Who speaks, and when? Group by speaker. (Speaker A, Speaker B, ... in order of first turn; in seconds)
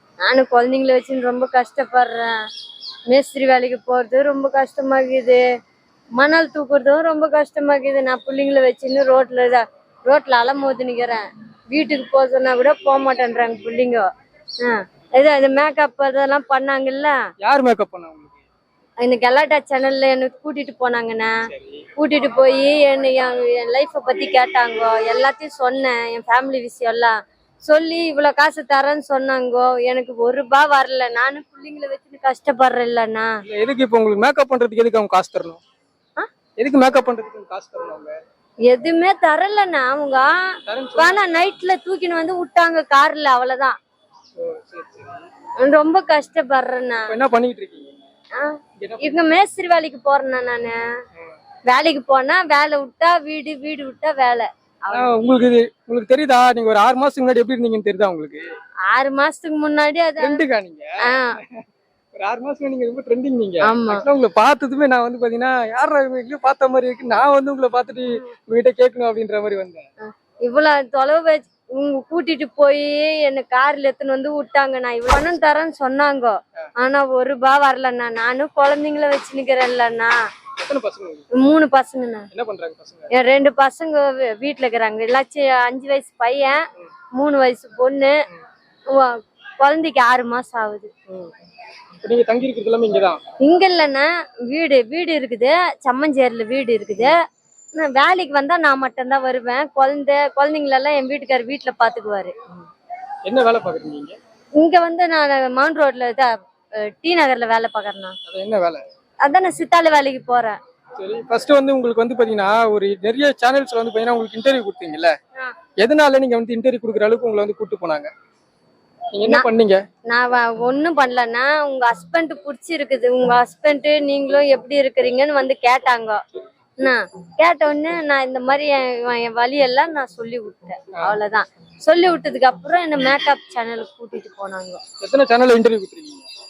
Speaker A: 0.2-2.3, 3.1-5.4, 6.2-14.1, 14.6-17.2, 19.0-21.3, 22.0-33.3, 38.7-40.3, 41.0-43.8, 45.6-47.1, 48.4-50.8, 51.7-55.2, 58.9-60.4, 61.0-61.4, 63.6-64.0, 70.4-80.1, 81.3-82.3, 83.1-86.6, 87.2-88.2, 88.9-90.9, 93.4-97.2, 97.7-102.3, 104.6-106.3, 106.8-108.2, 109.2-110.6, 120.1-126.2, 126.8-134.8
Speaker B: 17.4-18.4, 21.5-21.9, 33.4-35.6, 36.6-38.2, 40.7-41.4, 44.4-45.2, 47.1-47.9, 48.8-49.2, 54.9-58.4, 60.2-61.6, 62.1-69.9, 80.6-81.3, 82.3-83.1, 92.0-93.2, 103.2-104.2, 108.3-108.8, 111.0-115.1, 115.8-118.1, 119.1-119.8, 135.0-136.3